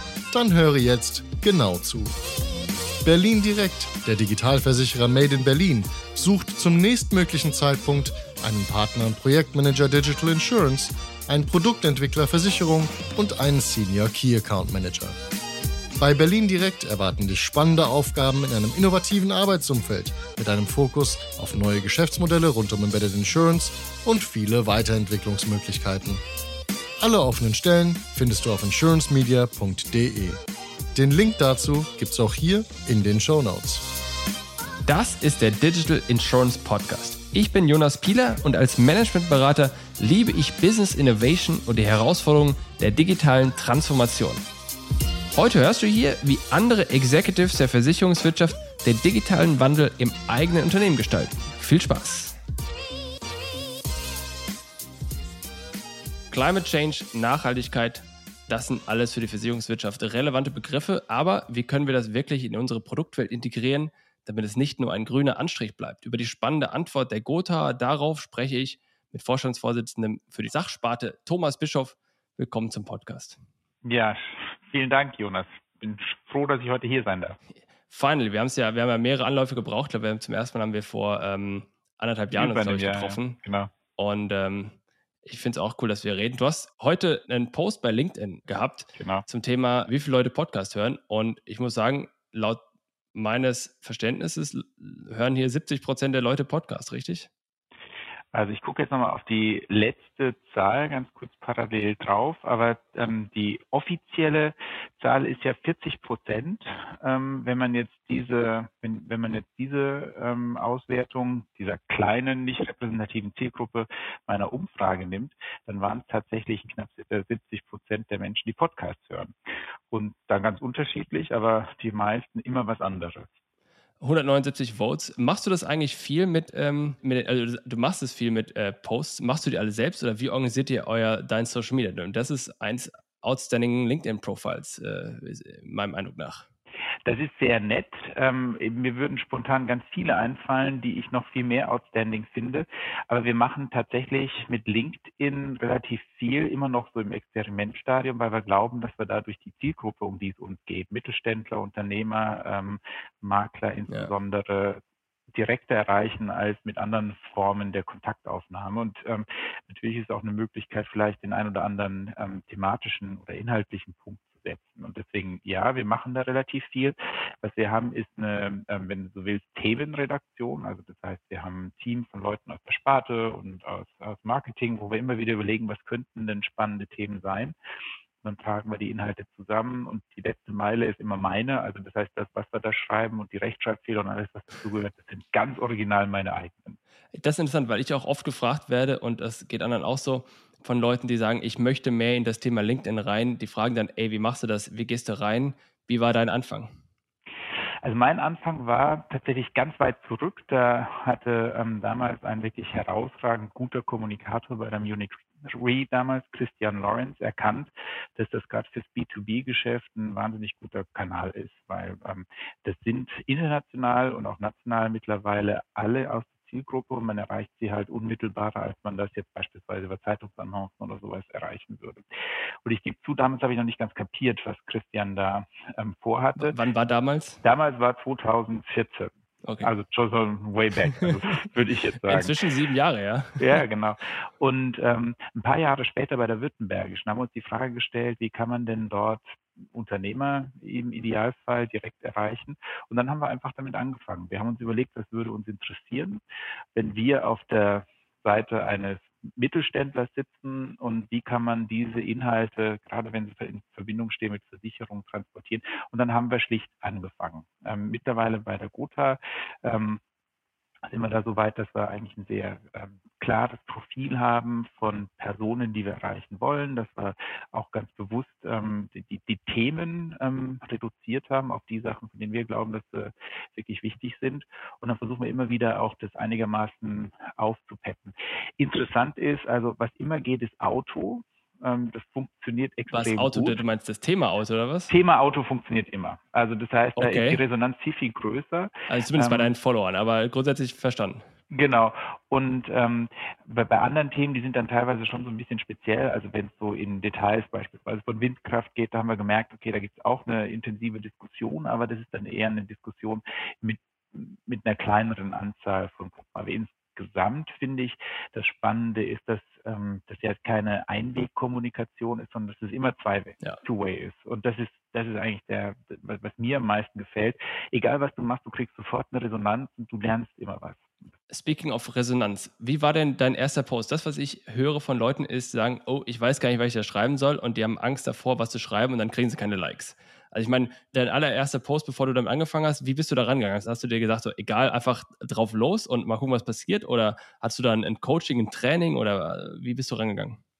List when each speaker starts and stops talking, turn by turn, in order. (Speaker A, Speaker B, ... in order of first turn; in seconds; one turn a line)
Speaker A: 0.3-2.1
Speaker A: 3.0-15.2
Speaker A: 16.0-26.2
Speaker A: 27.0-30.4
Speaker A: 30.9-33.8
Speaker B: 34.9-44.4
Speaker B: 45.3-52.4
Speaker B: 56.3-73.4
Speaker C: 73.8-77.4
Speaker B: 77.9-83.4
Speaker C: 82.3-83.7
Speaker B: 84.0-92.6
Speaker C: 89.0-89.2
Speaker B: 93.1-97.3
Speaker C: 98.3-119.3
Speaker C: 119.9-123.3
Speaker B: 124.0-136.4
Speaker C: 137.1-154.8
Speaker C: 155.3-177.5
Speaker C: 178.2-186.8
Speaker B: 187.1-196.7
Speaker C: 197.8-222.0
Speaker C: 222.6-226.6
Speaker B: 226.4-227.4
Speaker C: 227.4-232.3
Speaker B: 229.4-229.7
Speaker B: 232.1-233.6
Speaker C: 233.4-246.2
Speaker C: 246.7-260.0
Speaker C: 260.9-283.6
Speaker B: 282.9-284.9
Speaker C: 284.9-289.5
Speaker B: 287.0-287.4
Speaker B: 288.9-291.2
Speaker C: 291.5-320.9
Speaker B: 321.3-340.4